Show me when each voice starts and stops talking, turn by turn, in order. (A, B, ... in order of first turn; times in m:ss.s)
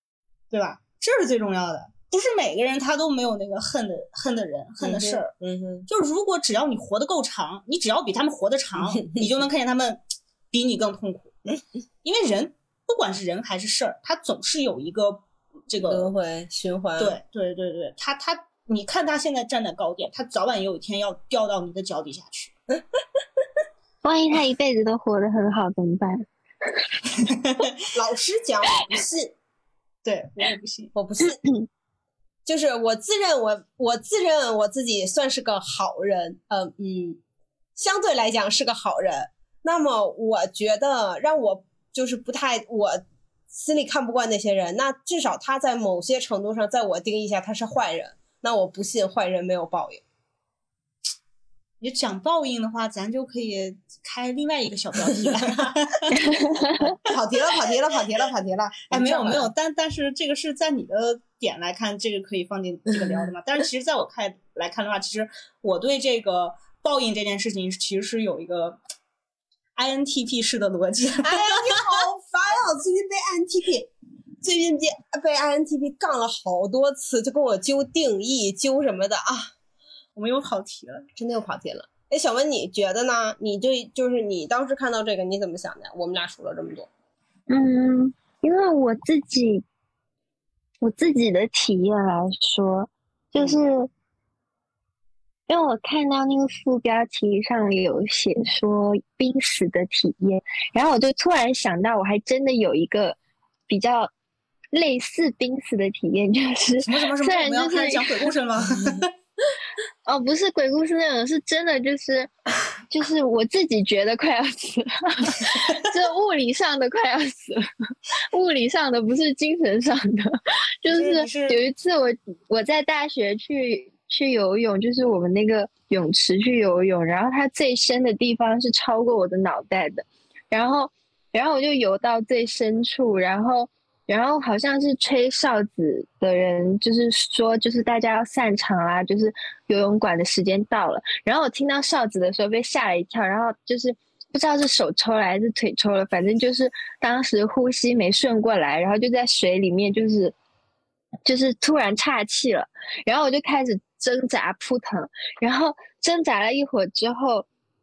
0:00.5-0:05.3 A
0:04.8-0:05.9 B
0:05.9-0:10.0 A
0:08.8-0:09.4 B
0:10.5-0:11.4 A
0:12.0-0:16.1 A
0:15.9-0:17.2 B
0:17.0-0:22.5 A
0:24.0-0:26.2 C
0:27.3-0:27.7 A
0:27.9-0:29.4 B
0:30.0-0:30.9 A
0:31.0-0:31.4 B
0:32.5-0:37.2 B
0:37.8-0:50.0 B
0:51.8-0:56.4 A
0:56.2-0:56.9 C
0:57.0-0:59.5 B
0:58.9-1:08.8 A
1:09.8-1:12.1 A
1:11.2-1:19.5 B
1:20.2-1:21.1 A
1:21.2-1:26.9 B
1:27.5-1:29.6 C
1:30.8-1:33.9 C
1:35.5-1:44.1 C
1:44.7-1:48.3 C
1:46.8-1:49.1 A
1:50.0-1:52.3 C
1:52.9-1:57.6 C
1:58.3-2:30.4 C
2:00.9-2:01.6 A
2:31.3-2:37.5 C